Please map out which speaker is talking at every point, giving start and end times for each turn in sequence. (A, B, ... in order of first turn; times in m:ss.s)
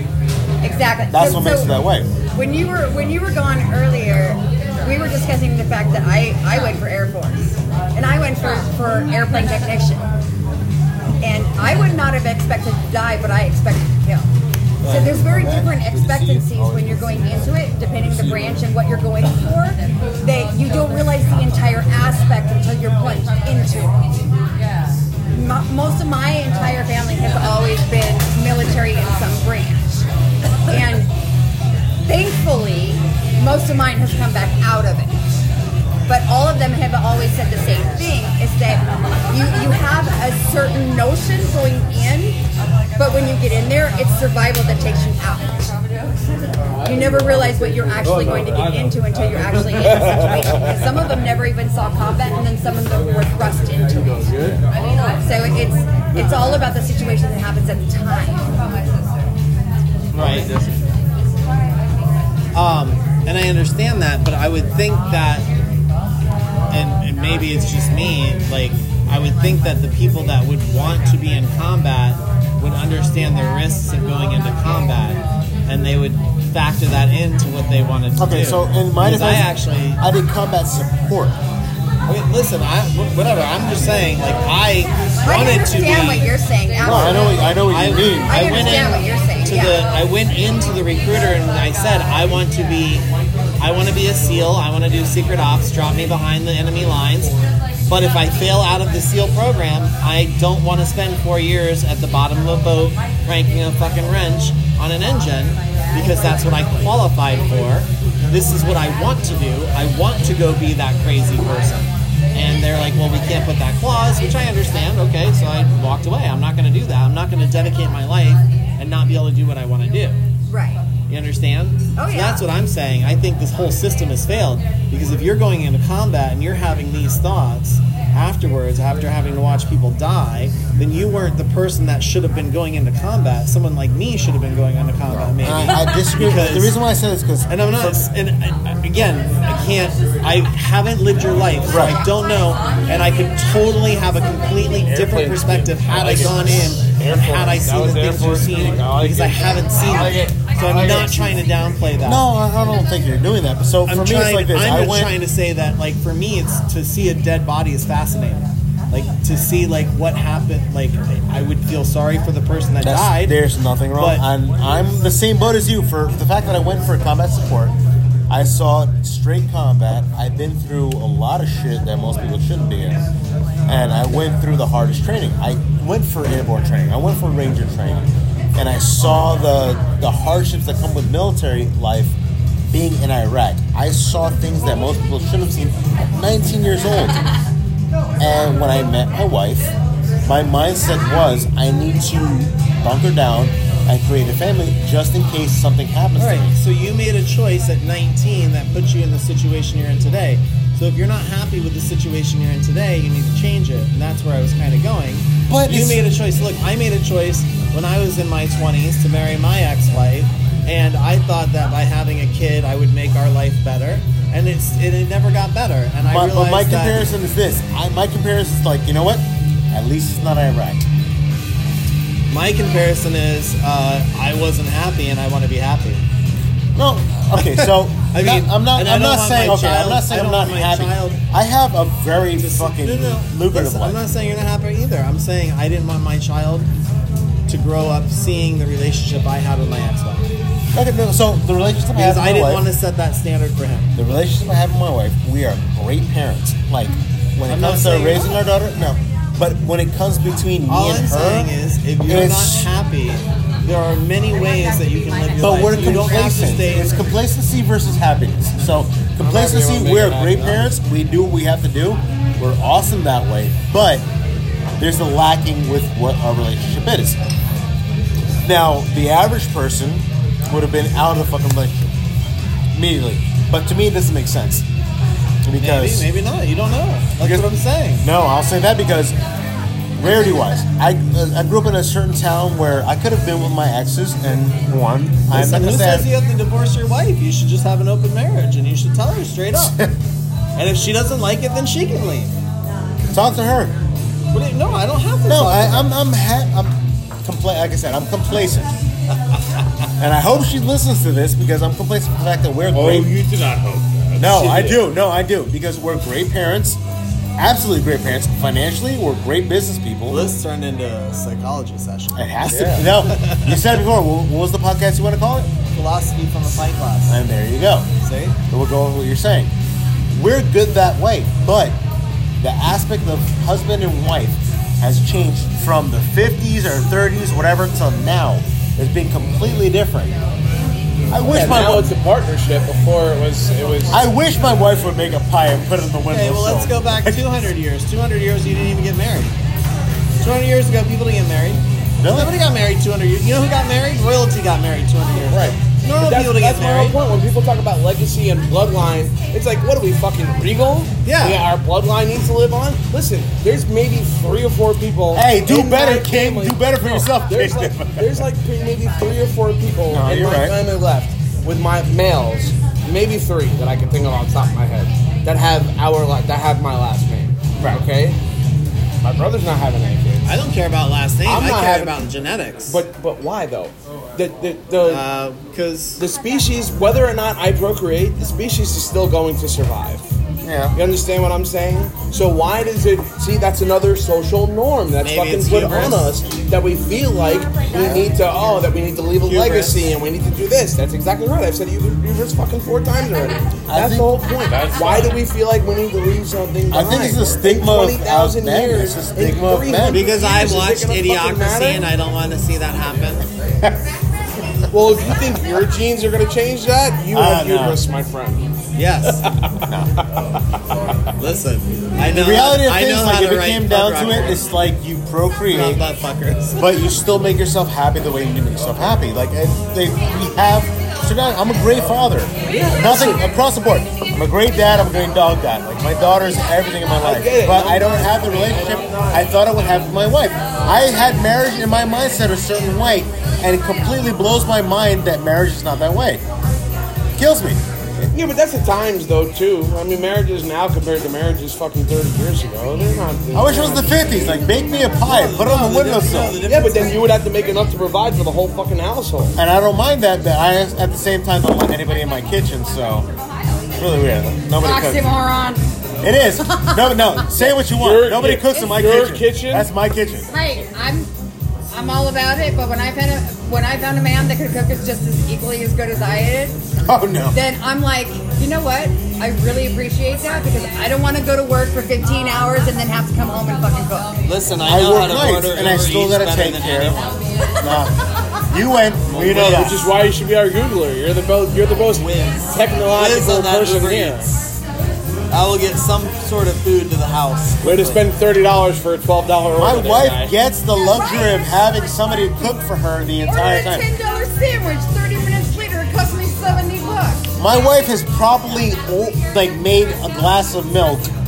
0:00.6-0:01.8 A
0:01.1-0:02.1 B
0:02.3-0:10.0 A
0:11.2-0:14.3 A
0:14.8-0:15.6 C
0:14.8-0:24.0 A
0:15.9-0:16.8 B
0:25.3-0:30.0 A
0:30.6-0:31.1 A
0:32.0-0:35.2 A
0:36.1-0:42.4 A
0:43.0-0:45.7 A
0:46.8-0:54.3 A
0:46.9-0:47.2 D
0:48.0-0:48.7 D
0:48.1-0:48.9 E
0:49.7-0:50.7 D
0:54.1-0:54.6 D
0:55.1-0:58.6 A
1:00.1-1:00.5 C
1:00.2-1:00.5 E
1:00.2-1:00.6 D
1:02.5-1:05.4 C
1:06.7-1:20.0 C
1:18.2-1:21.4 B
1:22.0-1:26.3 C
1:25.2-1:27.4 A
1:26.8-1:28.8 B
1:26.8-1:33.1 C
1:28.2-1:29.8 A
1:33.6-1:37.3 C
1:37.9-2:00.2 C
2:00.5-2:00.8 A
2:01.1-2:16.8 C
2:02.0-2:02.4 A
2:15.1-2:18.0 B
2:17.5-2:32.2 C
2:21.7-2:22.0 B
2:24.8-2:31.3 D
2:32.0-2:35.1 B
2:33.8-2:43.3 C
2:42.8-2:47.7 B
2:44.0-2:44.2 C
2:48.3-2:53.0 B
2:53.7-3:02.1 B
3:02.7-3:07.2 B
3:08.2-3:09.7 B
3:10.2-3:16.5 B
3:16.1-3:37.0 C
3:25.5-3:26.0 B
3:36.0-3:40.8 B
3:42.3-3:46.0 C
3:46.8-3:54.0 B
3:47.4-3:51.2 C
3:52.4-3:56.7 C
3:57.5-4:00.3 C
4:00.7-4:02.6 B
4:02.0-4:03.9 C
4:03.9-4:11.5 B
4:07.5-4:08.3 C
4:10.7-4:17.1 C
4:12.0-4:12.7 B
4:15.4-4:24.0 B
4:19.2-4:20.6 D
4:24.8-4:27.2 B
4:28.4-4:31.9 B
4:32.7-4:34.6 B
4:35.4-4:36.1 B
4:35.6-4:38.0 C
4:37.2-4:37.5 B
4:38.0-4:39.1 B
4:40.0-4:46.1 B
4:45.3-4:49.7 C
4:49.5-4:49.9 B
4:50.6-4:52.3 C
4:53.1-4:53.8 B
4:54.3-4:55.9 C
4:55.3-4:58.8 B
5:00.0-5:03.2 B
5:02.7-5:04.8 E
5:04.2-5:06.8 B
5:07.4-5:10.3 B
5:10.1-5:12.2 C
5:12.1-5:15.5 B
5:12.5-5:12.8 D
5:12.8-5:13.6 C
5:15.7-5:17.2 C
5:17.1-5:17.9 B
5:18.0-5:18.4 C
5:18.5-5:19.5 B
5:20.1-5:21.8 B
5:22.4-5:30.1 B
5:31.1-5:31.9 B
5:31.2-5:34.0 D
5:33.9-5:37.2 B
5:36.1-5:39.4 C
5:40.2-5:47.0 C
5:42.0-5:42.3 B
5:45.3-6:08.2 D
5:51.0-5:51.4 C
5:55.1-5:58.2 B
5:59.9-6:00.6 B
6:09.0-6:10.3 D
6:10.2-6:12.8 C
6:11.2-6:12.0 D
6:12.7-6:15.0 D
6:14.8-6:16.0 C
6:16.0-6:20.0 D
6:20.4-6:20.8 B
6:20.7-6:41.9 D
6:25.0-6:26.2 C
6:27.7-6:28.1 B
6:29.3-6:29.7 C
6:33.7-6:34.1 B
6:34.5-6:35.2 E
6:36.7-6:40.1 B
6:39.9-6:43.2 C
6:44.7-6:48.4 D
6:47.1-6:47.8 B
6:48.8-6:49.2 C
6:49.2-6:50.2 D
6:49.6-6:49.9 B
6:51.2-6:54.4 C
6:52.0-6:55.8 B
6:55.5-6:56.6 C
6:56.6-7:16.2 B
7:02.5-7:03.2 D
7:07.0-7:09.3 D
7:17.2-7:18.1 B
7:18.1-7:24.4 D
7:23.3-7:26.4 B
7:25.0-7:27.0 C
7:26.5-7:29.4 D
7:29.4-7:33.1 B
7:33.7-7:35.1 B
7:34.6-7:35.6 A
7:36.0-7:40.3 B
7:36.6-7:37.0 A
7:37.4-7:39.7 D
7:40.3-7:41.1 A
7:41.7-7:46.6 A
7:46.8-7:47.4 B
7:47.3-7:54.2 A
7:54.2-7:57.2 C
7:54.6-7:57.0 B
7:57.6-7:57.9 B
7:58.5-7:59.9 B
7:59.1-7:59.7 C
7:59.2-8:04.3 D
8:01.9-8:04.5 C
8:05.3-8:08.0 C
8:07.6-8:10.3 D
8:09.6-8:13.9 B
8:13.2-8:17.3 A
8:17.4-8:21.1 B